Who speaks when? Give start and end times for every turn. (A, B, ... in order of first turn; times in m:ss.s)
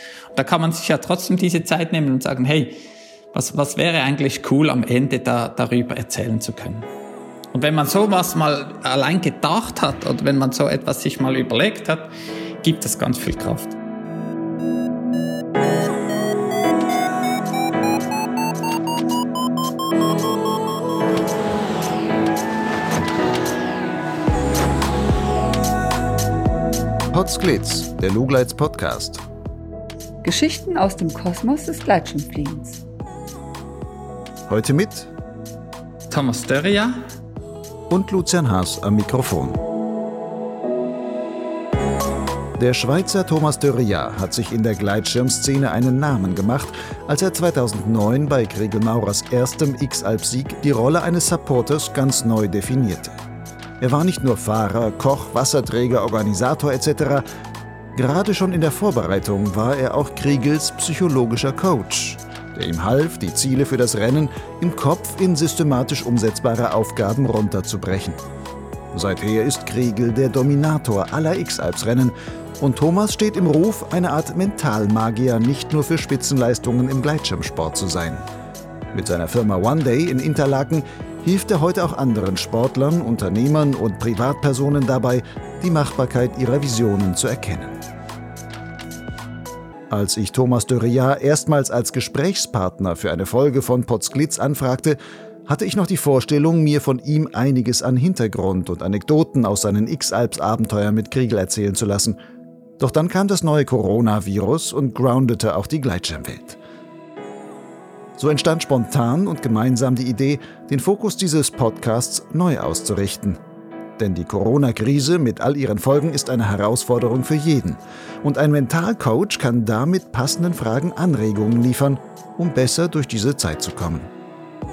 0:00.3-0:02.8 A
0:03.3-0:06.9 A
0:07.5-0:12.1 A
0:12.6-0:13.8 A
0:27.1-0:29.2 B
0:30.2-0:32.8 C
0:34.5-0:35.1 B
0:36.1-0:37.0 A
0:37.9-0:39.6 B
0:42.6-0:53.2 B
0:53.8-0:57.2 B
0:58.0-1:08.2 B
1:08.9-1:18.2 B
1:18.9-1:27.8 B
1:29.9-1:42.2 B
1:42.8-1:46.6 B
1:48.2-1:53.4 B
1:54.0-2:04.1 B